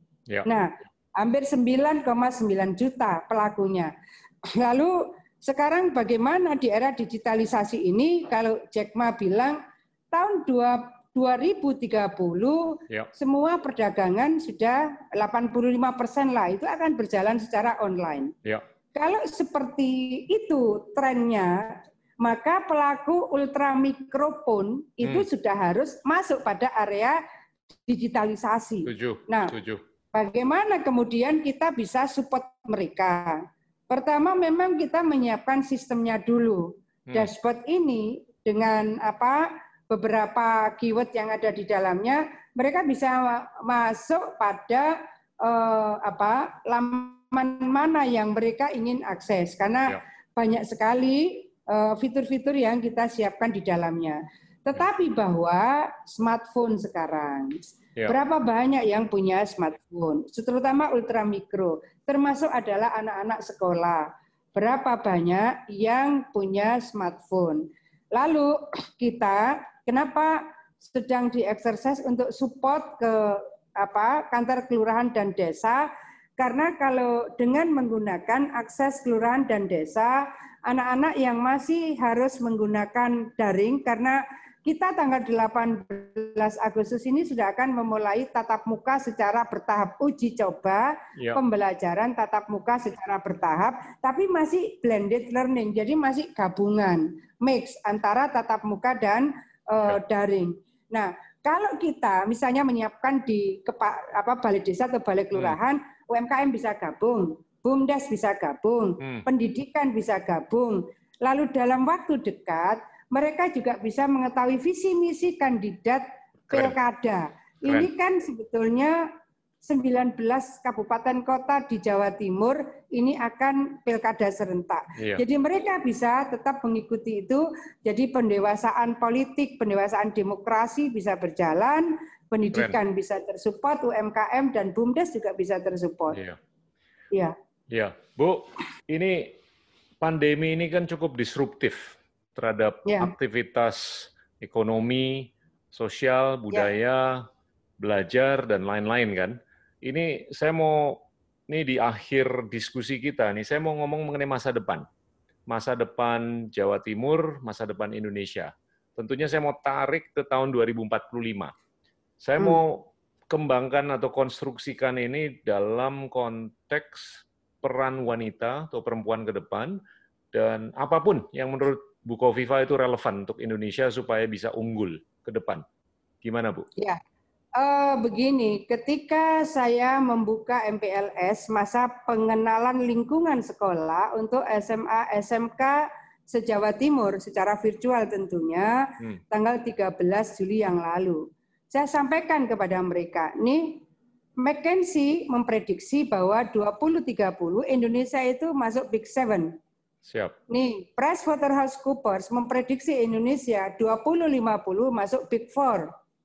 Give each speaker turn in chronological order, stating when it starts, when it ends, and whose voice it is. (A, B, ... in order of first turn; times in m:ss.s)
0:00.4-0:03.9 A
0:04.5-0:09.6 A
0:10.1-0:18.3 A
0:18.9-0:27.2 A
0:27.9-0:29.5 A
0:28.8-0:29.8 B
0:30.1-1:04.0 A
1:04.5-1:15.8 A
1:16.4-1:59.0 A
1:49.0-1:49.2 B
1:56.5-1:56.8 B
1:59.6-2:16.2 A
2:12.5-2:12.8 B
2:16.1-2:16.4 B
2:17.7-2:19.4 B
2:20.0-2:27.2 B
2:22.8-2:23.1 A
2:27.8-2:34.8 B
2:35.5-2:41.5 B
2:42.2-2:49.8 B
2:50.3-2:55.6 B
2:56.2-2:56.7 B
2:57.6-3:08.8 A
3:09.3-3:13.8 A
3:14.4-3:19.5 A
3:20.0-3:20.3 B
3:20.5-3:25.9 A